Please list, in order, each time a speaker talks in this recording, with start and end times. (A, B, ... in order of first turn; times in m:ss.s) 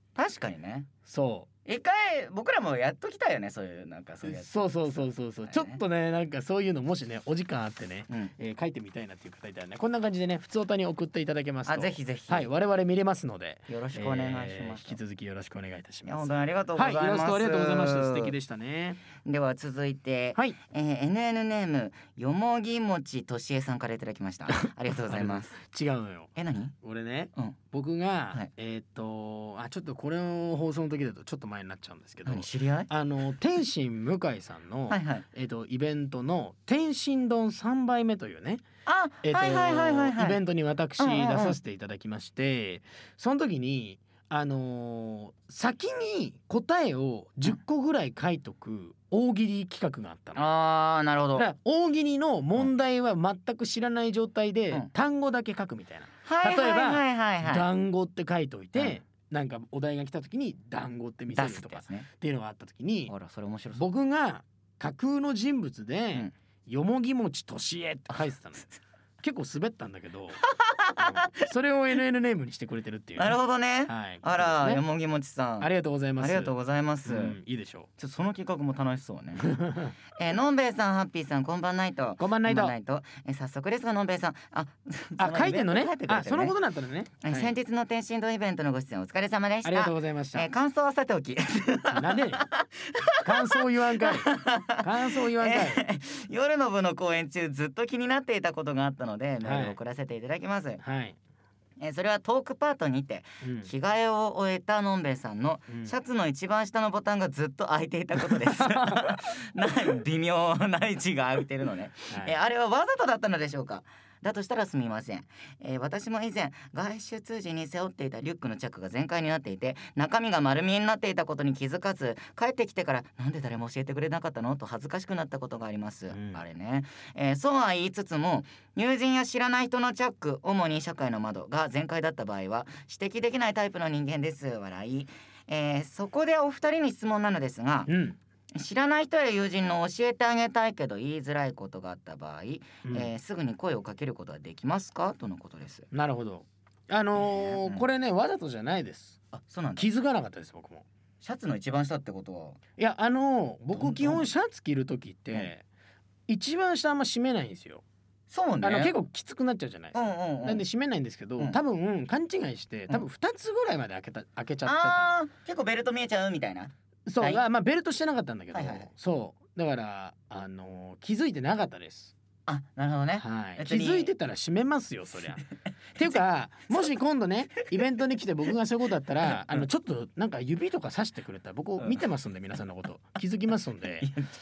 0:00.2-0:00.9 A
0:01.0-0:01.5 B
0:01.6-0:04.6 A
0:04.2-0:19.0 B
0:05.4-0:05.8 A
0:11.6-0:12.5 A
0:13.7-0:15.0 A
0:16.0-0:18.3 A
0:19.2-0:25.5 A
0:24.5-0:38.6 B
0:26.4-0:26.7 A
0:32.2-0:32.9 A
0:34.9-0:35.2 A
0:38.8-0:40.4 A
0:39.2-0:50.4 B
0:41.0-0:41.6 A
0:50.4-0:51.5 A
0:51.3-1:03.1 B
0:56.2-0:57.6 A
1:01.3-1:02.1 A
1:03.1-1:03.8 A
1:03.7-1:08.7 B
1:09.2-1:10.4 B
1:10.4-1:11.5 A
1:11.0-1:14.8 B
1:13.2-1:17.3 A
1:15.6-1:16.5 B
1:17.0-1:17.9 B
1:18.0-1:19.6 A
1:19.4-1:19.9 B
1:20.2-1:26.5 A
1:22.2-1:22.7 B
1:25.2-1:27.5 B
1:27.2-1:40.8 A
1:29.6-1:30.5 B
1:31.9-1:32.4 B
1:33.2-1:35.8 B
1:39.4-1:39.8 B
1:40.8-1:41.2 B
1:41.8-2:17.9 A
1:43.4-1:43.7 B
1:45.7-1:45.9 B
1:48.2-1:49.2 B
1:52.1-1:52.3 B
2:06.1-2:06.4 B
2:17.9-2:18.2 B
2:18.6-2:25.9 A
2:22.8-2:23.1 B
2:25.9-2:29.2 B
2:27.2-2:27.8 A
2:29.3-2:29.9 A
2:29.8-2:30.8 B
2:31.2-2:32.6 A
2:32.8-2:35.6 B
2:33.7-2:34.2 A
2:36.3-2:37.8 B
2:38.3-2:39.0 A
2:38.6-2:45.1 B
2:39.9-2:40.6 A
2:44.6-2:47.4 A
2:47.0-2:52.1 B
2:48.5-2:48.9 A
2:52.5-2:54.1 A
2:53.2-2:55.4 B
2:56.0-3:04.1 B
3:04.0-3:04.3 A